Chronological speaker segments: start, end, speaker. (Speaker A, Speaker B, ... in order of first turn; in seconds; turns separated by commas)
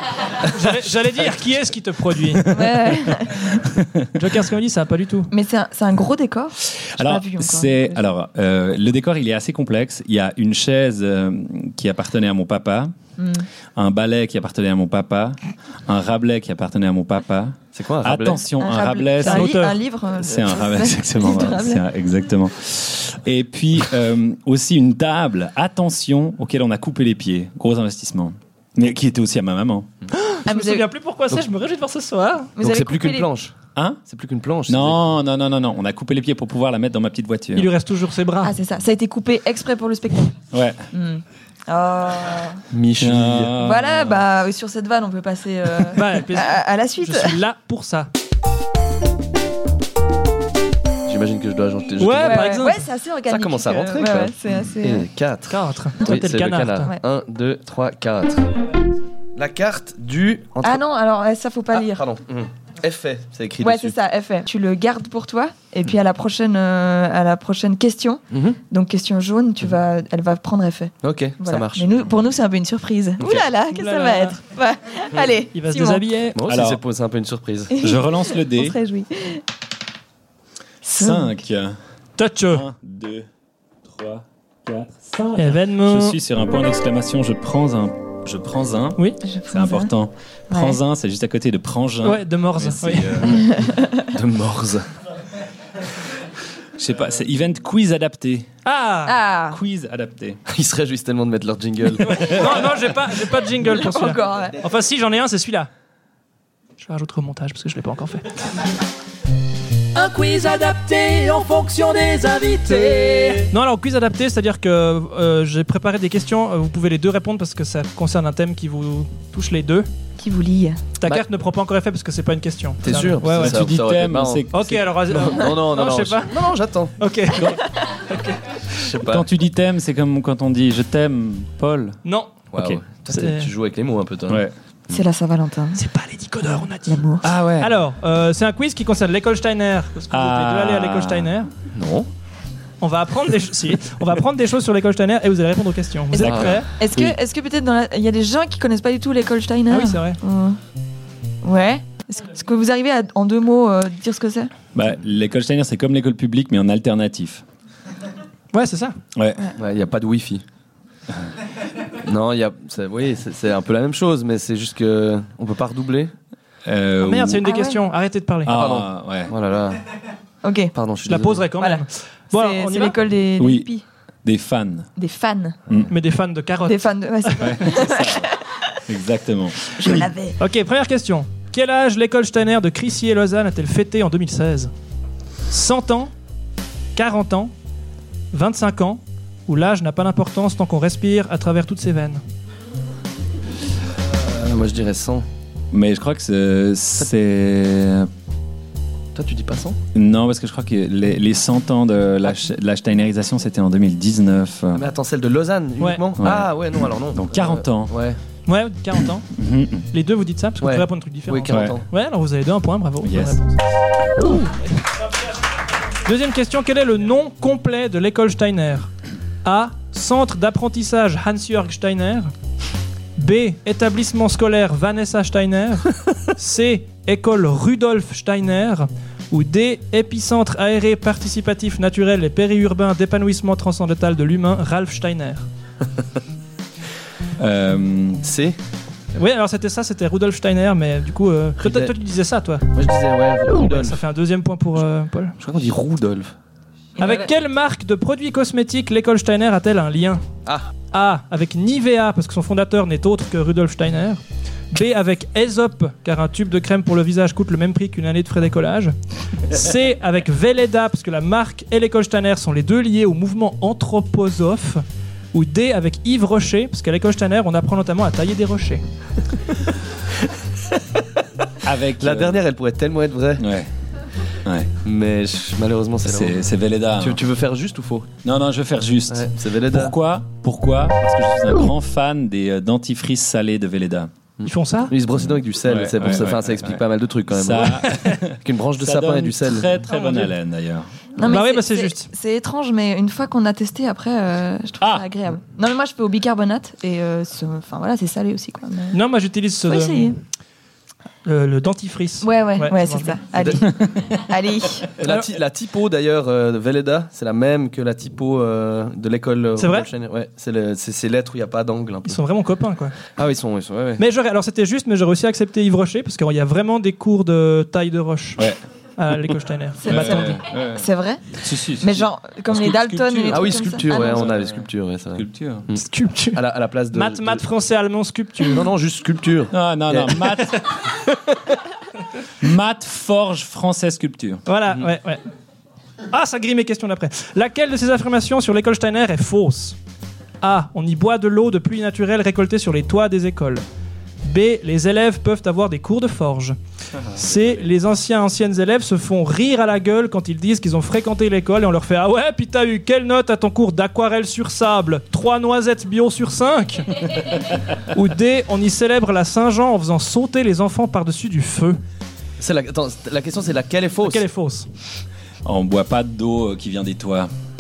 Speaker A: 0.5-2.6, Speaker B: 2.5-3.6, Speaker C: 2.6-4.1, Speaker A: 4.1-5.3, Speaker B: 5.3-8.0, Speaker C: 6.6-12.9, Speaker B: 13.2-13.5, Speaker C: 13.8-19.6, Speaker D: 17.8-18.4, Speaker B: 18.6-21.8, Speaker A: 19.2-19.8, Speaker C: 20.2-29.9, Speaker A: 30.1-32.5, Speaker B: 30.5-30.9, Speaker B: 32.6-33.3, Speaker D: 32.6-35.0, Speaker C: 33.8-34.0, Speaker C: 34.7-37.7, Speaker A: 37.6-38.5, Speaker B: 38.4-40.4, Speaker C: 40.5-40.9, Speaker B: 40.9-42.6, Speaker D: 42.7-43.5, Speaker C: 43.0-44.2, Speaker B: 43.6-47.4, Speaker A: 46.0-48.1, Speaker D: 51.0-52.6, Speaker A: 52.0-52.8, Speaker B: 52.2-55.1, Speaker D: 53.3-58.5, Speaker A: 55.5-56.9, Speaker D: 59.4-60.8, Speaker B: 60.6-62.0, Speaker D: 61.7-64.0, Speaker B: 63.6-76.0, Speaker D: 68.3-68.6, Speaker D: 71.0-71.9, Speaker A: 73.7-74.4, Speaker A: 75.5-76.4, Speaker D: 76.3-77.8, Speaker C: 76.5-76.8, Speaker B: 77.7-79.4, Speaker C: 77.8-78.8, Speaker B: 80.8-81.4, Speaker C: 81.0-81.8, Speaker A: 82.2-82.7, Speaker C: 82.5-83.3, Speaker C: 83.8-93.5, Speaker A: 85.4-86.2, Speaker B: 89.2-89.9, Speaker B: 90.5-90.8, Speaker A: 92.0-93.2, Speaker B: 93.3-94.1, Speaker D: 94.0-94.9, Speaker C: 96.8-98.5, Speaker A: 98.7-99.2, Speaker B: 99.1-99.6, Speaker C: 99.5-100.4, Speaker D: 100.5-102.8, Speaker A: 102.0-105.7, Speaker B: 103.6-104.6, Speaker A: 106.8-108.5, Speaker E: 110.0-113.5, Speaker A: 112.7-119.9, Speaker B: 120.2-120.8, Speaker A: 121.0-123.6, Speaker D: 122.8-124.5, Speaker C: 123.3-124.9, Speaker A: 124.5-128.8, Speaker D: 125.1-127.0, Speaker D: 128.8-129.3, Speaker C: 129.0-132.0, Speaker A: 132.1-132.4, Speaker D: 132.5-135.0, Speaker A: 133.1-133.5, Speaker C: 134.3-134.5, Speaker B: 134.9-135.8, Speaker A: 135.8-137.0, Speaker B: 136.9-137.3, Speaker C: 137.2-137.7, Speaker A: 137.6-141.5, Speaker C: 140.1-141.3, Speaker D: 141.7-142.1, Speaker A: 142.8-146.7, Speaker B: 146.1-150.6, Speaker C: 146.2-147.2, Speaker D: 146.2-146.6, Speaker A: 149.7-150.2, Speaker B: 151.4-154.5, Speaker C: 154.7-157.4, Speaker A: 158.5-159.0, Speaker C: 159.1-159.4, Speaker D: 159.6-160.4, Speaker D: 161.9-166.1, Speaker C: 166.7-167.5, Speaker A: 167.0-168.6, Speaker B: 167.4-167.8, Speaker C: 168.4-169.3, Speaker D: 168.5-169.9, Speaker B: 170.4-170.7, Speaker D: 170.7-171.5, Speaker A: 171.1-173.0, Speaker B: 171.6-173.8, Speaker C: 173.4-173.7, Speaker C: 174.2-174.9, Speaker B: 175.0-175.6, Speaker C: 175.7-175.9, Speaker A: 175.9-177.5, Speaker B: 176.7-178.7, Speaker C: 177.4-178.3, Speaker C: 178.9-180.0, Speaker B: 179.8-180.4, Speaker A: 180.4-184.7, Speaker A: 185.5-186.1, Speaker A: 187.0-187.5, Speaker A: 188.3-192.2, Speaker D: 194.1-195.3, Speaker C: 195.7-198.1, Speaker D: 199.2-199.8, Speaker C: 199.9-204.8, Speaker D: 204.7-208.2, Speaker C: 206.2-207.9, Speaker A: 208.5-209.3, Speaker C: 209.3-209.9, Speaker A: 209.9-213.6, Speaker D: 210.6-211.9, Speaker C: 211.5-211.8, Speaker C: 213.0-213.4, Speaker A: 214.2-214.8, Speaker A: 216.1-218.9, Speaker A: 219.4-222.3, Speaker A: 223.2-235.5, Speaker C: 237.4-238.2, Speaker D: 238.2-238.6, Speaker A: 239.2-242.7, Speaker D: 241.6-241.9, Speaker D: 242.7-244.0, Speaker A: 243.6-245.4, Speaker D: 245.4-246.3, Speaker A: 247.0-250.2, Speaker A: 250.9-258.9, Speaker A: 259.5-268.8, Speaker C: 271.6-272.4, Speaker D: 272.0-273.4, Speaker C: 273.4-273.7, Speaker C: 274.4-274.7, Speaker D: 274.8-276.4, Speaker C: 276.0-277.2, Speaker D: 277.0-278.1, Speaker C: 278.2-284.1, Speaker D: 279.1-279.9, Speaker D: 284.4-289.7, Speaker A: 284.4-284.9, Speaker C: 285.2-290.9, Speaker A: 289.9-290.3, Speaker B: 291.2-299.0, Speaker A: 291.2-292.1, Speaker A: 298.9-300.1, Speaker B: 299.7-300.2, Speaker A: 301.2-303.5, Speaker B: 302.2-304.9, Speaker D: 303.4-303.7, Speaker D: 305.0-312.2, Speaker A: 305.0-305.3, Speaker A: 309.6-309.9, Speaker A: 312.1-313.0, Speaker D: 313.1-314.0, Speaker A: 314.0-320.4, Speaker B: 319.8-324.4, Speaker C: 319.9-320.9, Speaker C: 321.4-324.6, Speaker D: 323.3-327.4, Speaker C: 325.1-325.7, Speaker A: 325.7-326.4, Speaker A: 326.9-328.7, Speaker D: 328.5-330.4, Speaker C: 329.5-330.8, Speaker C: 332.4-334.4, Speaker A: 334.5-335.2, Speaker A: 336.1-339.8, Speaker A: 340.4-343.6, Speaker A: 344.2-346.6, Speaker A: 347.1-361.8, Speaker D: 362.4-364.2, Speaker A: 364.0-364.7, Speaker C: 365.4-367.3